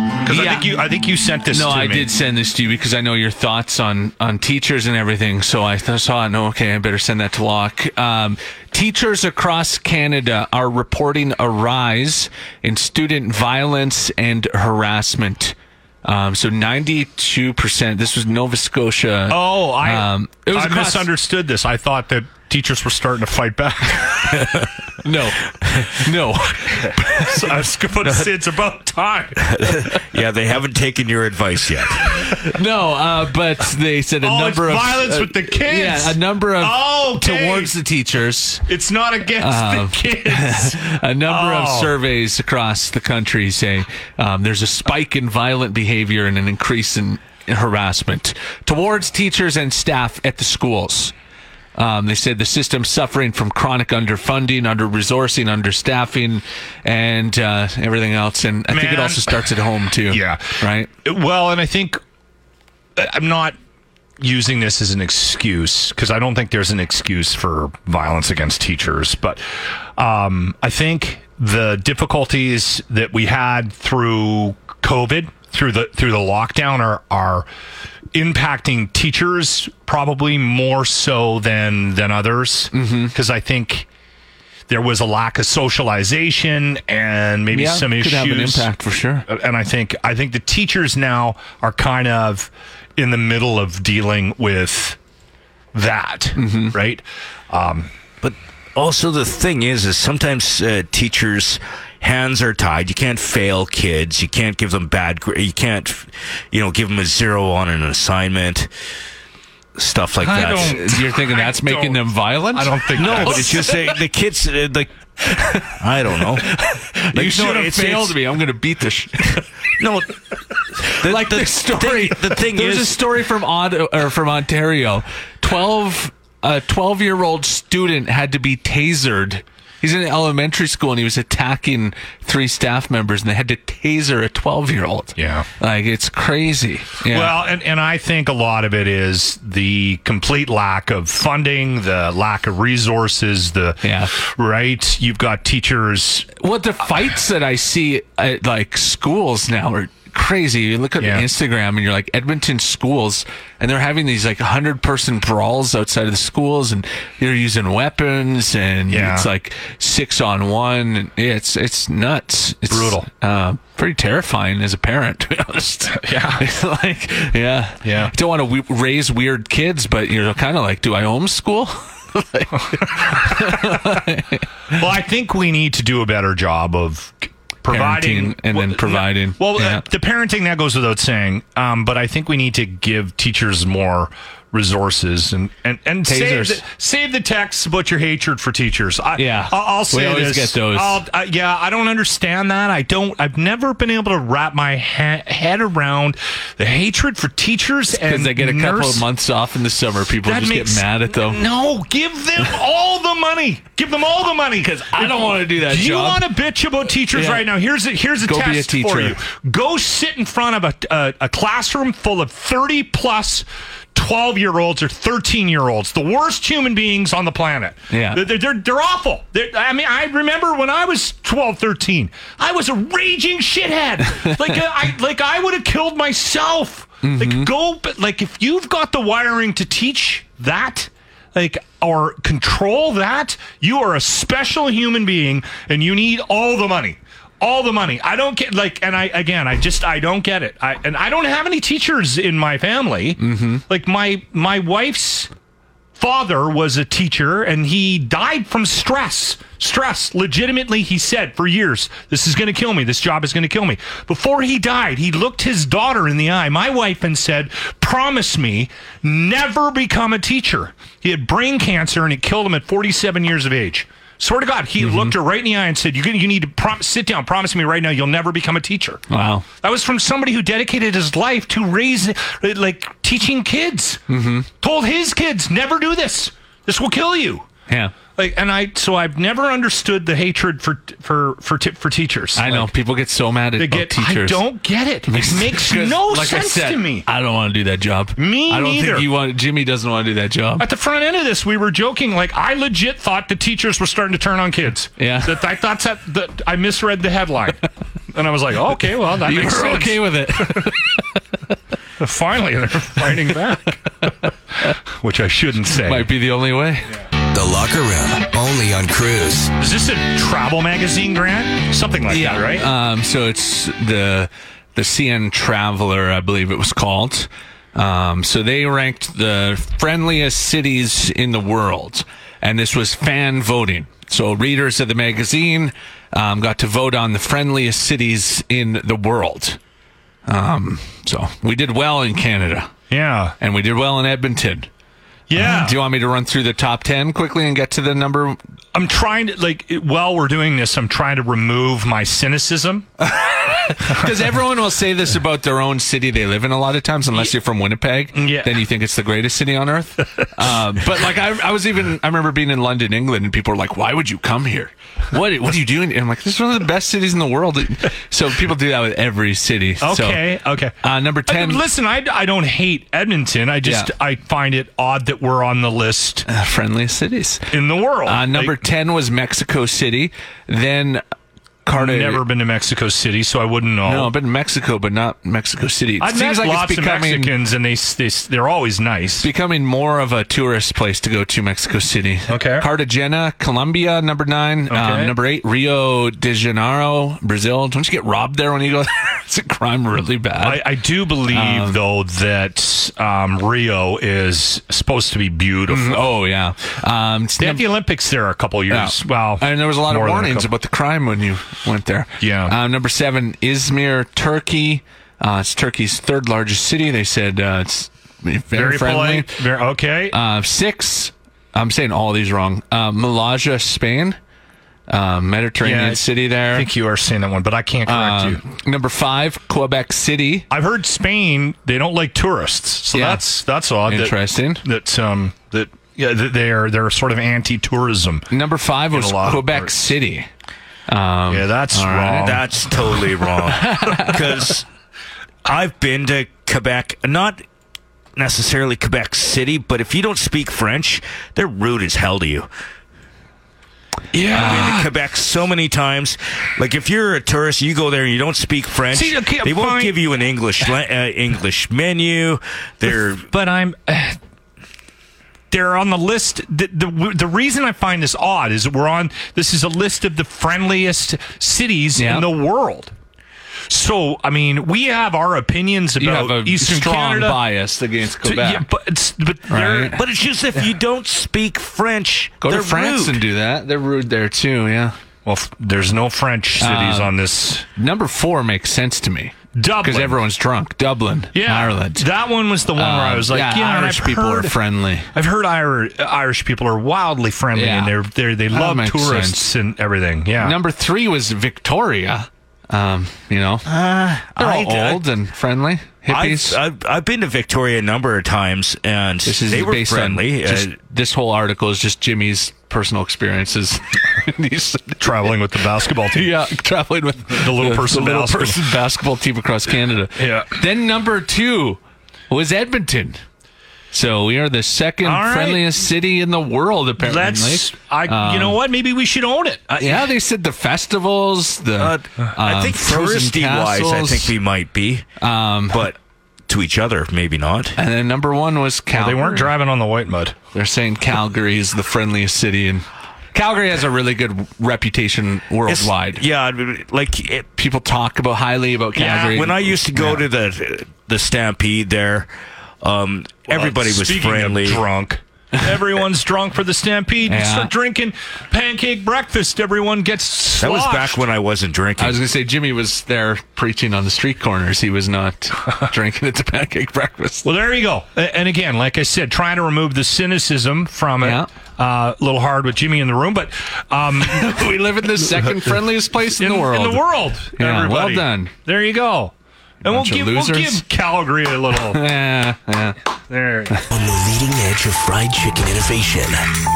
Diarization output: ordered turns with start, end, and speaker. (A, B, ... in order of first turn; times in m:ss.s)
0:00.2-0:02.1 A
0:00.3-0:00.8 B
0:01.5-0:21.1 B
0:19.3-0:24.7 A
0:25.0-0:27.4 B
0:26.8-0:29.9 A
0:29.5-0:32.3 C
0:32.4-0:38.6 B
0:34.2-0:37.7 A
0:38.7-0:41.9 A
0:39.4-0:51.1 B
0:51.8-1:00.9 B
0:58.7-0:59.4 A
1:00.1-1:02.0 A
1:03.0-1:03.5 A
1:04.2-1:09.4 A
1:10.0-1:17.5 A
1:18.1-1:23.9 A
1:22.7-1:23.1 B
1:24.7-1:28.7 A
1:27.5-1:29.3 B
1:29.3-1:35.0 A
1:35.7-1:37.9 A
1:36.4-1:36.7 B
1:38.2-1:48.7 C
1:49.8-1:50.8 C
1:50.2-1:53.7 A
1:50.6-1:53.9 B
1:52.9-1:54.9 C
1:55.3-1:55.7 B
1:55.8-1:56.5 C
1:56.3-1:59.4 B
1:57.1-1:58.1 C
1:59.8-2:00.2 C
2:00.8-2:03.0 C
2:00.9-2:17.4 B
2:15.2-2:15.5 A
2:17.1-2:26.3 A
2:23.8-2:24.1 B
2:26.4-2:54.5 B
2:31.0-2:31.2 A
2:38.9-2:39.3 A
2:42.7-2:43.1 A
2:45.9-2:46.4 A
2:47.8-2:48.1 A
2:53.1-2:53.8 A
2:54.7-3:19.0 A
2:57.7-2:59.8 B
3:06.0-3:06.6 B
3:09.2-3:11.0 B
3:18.0-3:21.4 B
3:20.2-4:05.3 A
3:24.6-3:26.2 B
3:27.1-3:27.5 B
3:28.2-3:29.2 B
3:37.9-3:38.2 B
3:47.0-3:47.5 B
4:03.2-4:03.6 B
4:06.0-4:29.0 A
4:24.8-4:25.1 B
4:29.1-4:29.4 B
4:29.6-4:34.0 A
4:34.1-4:34.5 B
4:34.6-4:37.5 A
4:37.7-4:37.9 B
4:38.2-4:42.7 A
4:42.3-4:44.4 B
4:43.6-4:47.1 A
4:45.1-4:50.6 B
4:48.2-4:49.1 A
4:50.6-5:00.9 A
4:55.0-4:55.4 B
4:59.2-5:01.0 B
5:02.0-5:04.1 A
5:05.0-5:06.1 A
5:05.8-5:06.9 B
5:07.3-5:09.5 D
5:09.6-5:12.6 A
5:12.1-5:29.6 B
5:30.3-5:32.7 B
5:32.9-5:33.4 A
5:33.4-5:34.7 B
5:35.3-5:35.8 A
5:35.3-5:38.4 B
5:38.7-5:42.9 A
5:43.7-6:00.2 B
5:43.8-5:44.1 A
5:48.1-5:48.6 A
5:59.8-6:06.2 A
6:00.8-6:01.6 B
6:03.6-6:03.9 B
6:06.3-6:07.5 B
6:07.5-6:08.6 A
6:08.1-6:11.0 B
6:11.6-6:12.2 B
6:11.7-6:14.1 A
6:13.8-6:17.3 B
6:16.0-6:19.3 A
6:19.2-6:30.6 B
6:22.3-6:22.7 A
6:24.7-6:25.1 A
6:30.4-6:36.0 A
6:31.3-6:31.8 B
6:35.7-6:37.6 B
6:37.4-6:40.5 A
6:38.7-6:49.4 B
6:42.2-6:42.5 A
6:48.5-6:50.2 A
6:50.1-6:54.2 B
6:54.9-6:56.7 B
6:55.6-6:58.4 A
6:57.9-7:00.5 B
7:00.5-7:08.3 A
7:02.9-7:03.2 B
7:03.8-7:04.6 B
7:08.3-7:10.3 B
7:08.9-7:09.7 A
7:10.9-7:12.4 B
7:11.3-7:13.0 A
7:12.2-7:14.7 C
7:13.4-7:14.2 B
7:15.4-7:17.4 C
7:18.2-7:22.5 C
7:24.1-7:24.9 A
7:24.3-7:33.3 C
7:24.3-7:24.8 B
7:28.9-7:30.0 A
7:32.9-7:34.2 A
7:35.5-7:42.9 A
7:42.0-7:42.3 B
7:43.7-7:47.4 A
7:46.0-7:48.6 B
7:48.2-7:50.0 A
7:49.5-7:50.0 B
7:49.9-7:53.2 C
7:52.4-7:55.0 B
7:55.2-7:57.7 A
7:56.6-7:57.1 B
7:57.8-8:02.0 B
7:59.5-8:00.2 A
8:01.3-8:04.6 A
8:02.8-8:05.1 B
8:05.1-8:10.6 A
8:07.5-8:07.9 B
8:08.5-8:09.5 B
8:10.4-8:13.7 B
8:13.6-8:15.0 C
8:14.4-8:16.6 B
8:16.1-8:20.8 C
8:19.2-8:25.3 B
8:25.0-8:26.3 A
8:26.1-8:33.2 B
8:27.3-8:28.6 A
8:30.2-8:30.5 A
8:33.9-8:38.6 B
8:35.0-8:35.7 A
8:37.0-8:39.8 A
8:39.8-8:44.3 B
8:41.8-8:45.0 C
8:45.2-8:45.9 B
8:45.7-8:47.8 C
8:47.8-8:49.5 B
8:48.9-8:50.4 A
8:50.5-8:56.2 B
8:55.7-8:57.5 C
8:57.6-9:00.2 B
8:59.0-8:59.4 A
8:59.3-9:02.3 C
9:02.8-9:04.8 C
9:03.5-9:11.2 A
9:07.3-9:07.7 B
9:10.6-9:12.2 C
9:12.0-9:17.5 B
9:17.4-9:24.7 A
9:21.2-9:21.5 B
9:24.2-9:27.0 B
9:26.4-9:29.3 A
9:27.6-9:28.5 B
9:29.8-9:30.8 B
9:29.8-9:32.0 A
9:31.9-9:33.0 B
9:33.3-9:33.8 A
9:33.9-9:36.5 D